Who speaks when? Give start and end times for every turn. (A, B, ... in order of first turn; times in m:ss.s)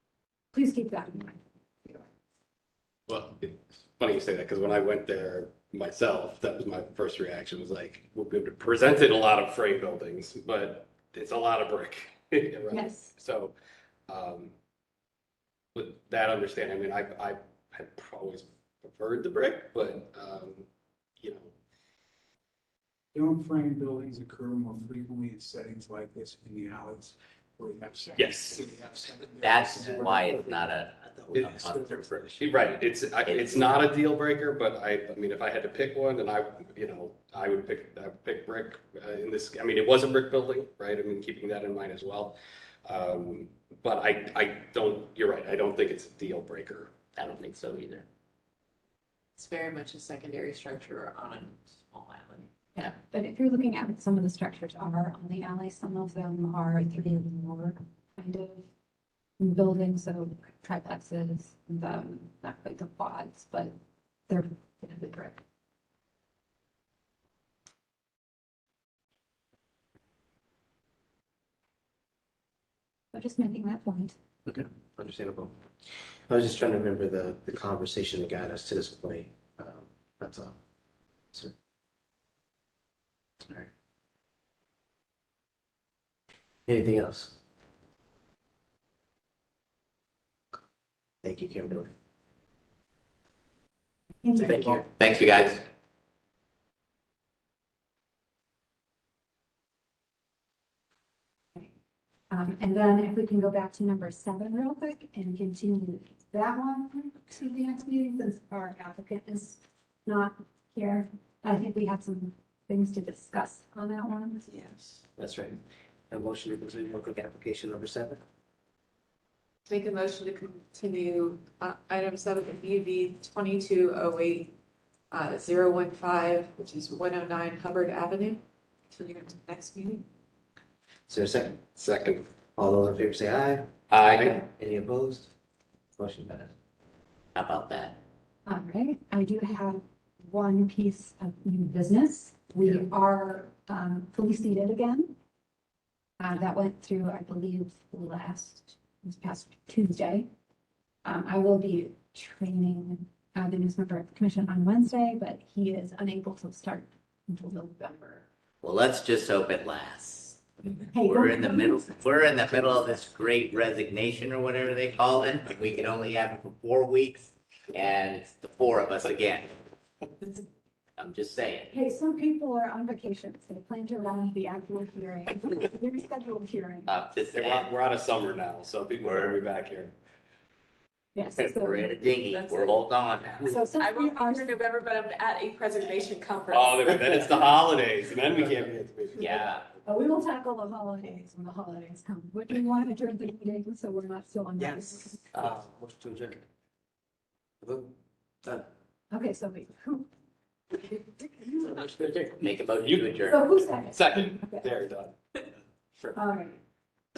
0:00.5-0:02.0 A
0:03.1-0:13.5 B
0:12.7-0:13.1 A
0:14.1-0:14.5 B
0:15.8-0:20.7 B
0:21.2-0:21.5 B
0:23.1-0:30.6 C
0:28.2-0:28.8 B
0:29.4-0:32.3 D
0:32.2-0:47.1 B
0:49.4-0:52.9 E
0:52.8-0:58.6 A
0:59.4-1:03.7 A
1:04.3-1:05.4 A
1:13.1-1:14.2 A
1:14.5-1:15.5 F
1:16.3-1:20.6 F
1:26.7-1:27.3 F
1:31.2-1:31.9 F
1:34.2-1:34.5 A
1:34.4-1:34.8 F
1:34.4-1:35.6 D
1:42.3-1:54.5 A
1:54.5-1:55.0 E
1:55.2-1:55.6 F
1:56.1-1:58.2 F
1:59.7-2:04.5 E
2:05.1-2:10.1 E
2:11.1-2:11.6 F
2:11.8-2:12.2 B
2:12.6-2:13.7 F
2:13.9-2:14.4 B
2:14.3-2:15.3 F
2:16.0-2:16.5 F
2:17.4-2:18.0 D
2:18.5-2:25.2 A
2:26.2-2:30.3 A
2:31.0-2:38.2 A
2:38.6-2:49.6 D
2:40.9-2:42.0 A
2:51.0-2:51.7 D
2:51.7-2:56.9 A
2:56.9-2:57.7 D
2:57.3-2:59.9 B
3:01.2-3:01.9 A
3:01.4-3:03.7 D
3:02.3-3:02.8 E
3:03.5-3:04.6 A
3:03.7-3:07.6 E
3:06.5-3:09.6 B
3:09.2-3:09.6 D
3:09.9-3:15.3 A
3:15.3-3:16.4 F
3:17.6-3:17.9 F
3:19.1-3:20.1 A
3:20.7-3:21.8 A
3:21.6-3:22.3 F
3:22.1-3:23.5 D
3:22.8-3:23.3 B
3:23.3-3:24.7 A
3:23.9-3:25.2 B
3:26.1-3:26.6 A